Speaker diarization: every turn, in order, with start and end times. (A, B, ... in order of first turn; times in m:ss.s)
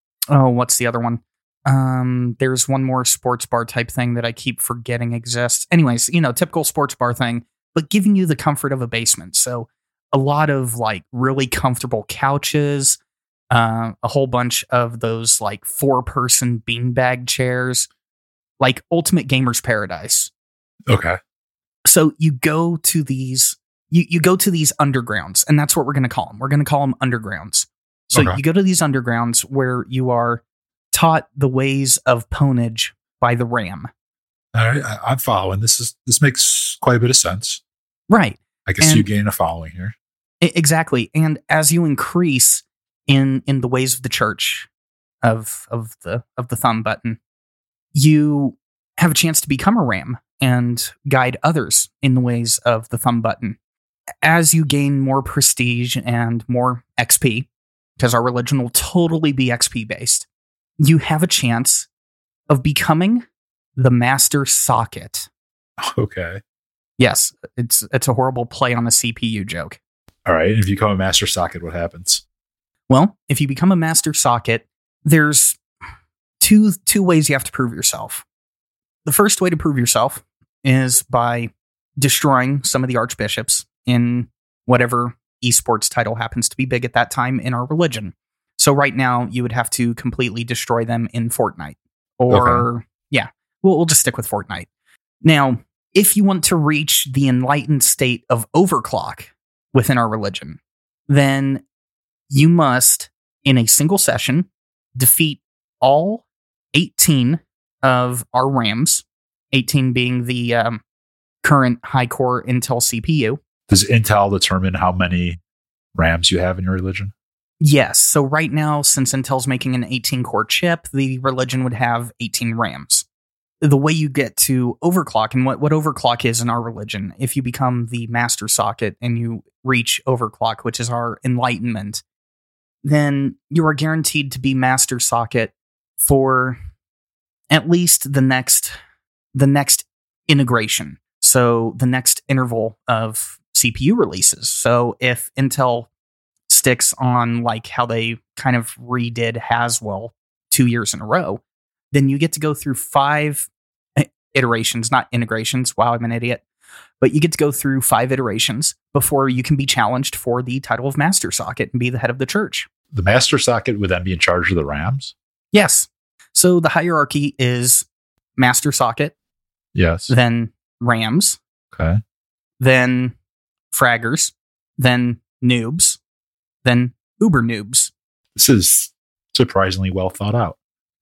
0:00.3-0:13.0 A
0:13.5-0:17.9 A
0:18.6-0:20.3 A
0:20.9-0:21.2 B
0:21.9-0:33.9 A
0:28.1-0:28.4 B
0:34.5-0:37.6 B
0:38.1-0:39.1 A
0:38.7-0:39.9 B
0:40.4-0:44.7 A
0:45.2-0:47.2 A
0:47.9-0:53.6 A
0:54.2-1:00.3 A
1:00.8-1:01.9 A
1:02.5-1:03.2 A
1:03.8-1:05.3 A
1:05.8-1:06.4 B
1:07.0-1:09.8 A
1:10.2-1:12.2 B
1:12.9-1:15.6 A
1:16.4-1:18.2 A
1:19.0-1:34.7 A
1:32.3-1:32.7 B
1:35.2-1:41.6 A
1:42.3-1:50.8 A
1:51.4-1:53.4 A
1:53.7-1:55.4 B
1:56.0-1:57.1 B
1:57.6-2:03.0 A
2:03.6-2:12.0 A
2:12.8-2:16.6 A
2:17.5-2:18.8 A
2:19.4-2:25.9 A
2:26.5-2:36.4 A
2:37.0-2:42.7 A
2:42.9-2:45.1 B
2:45.5-2:47.9 A
2:48.4-2:49.1 A
2:49.8-2:50.1 B
2:50.1-2:51.4 A
2:51.7-2:52.0 B
2:52.6-2:53.1 A
2:53.7-2:56.0 A
2:56.6-2:57.9 A
2:58.4-3:00.6 B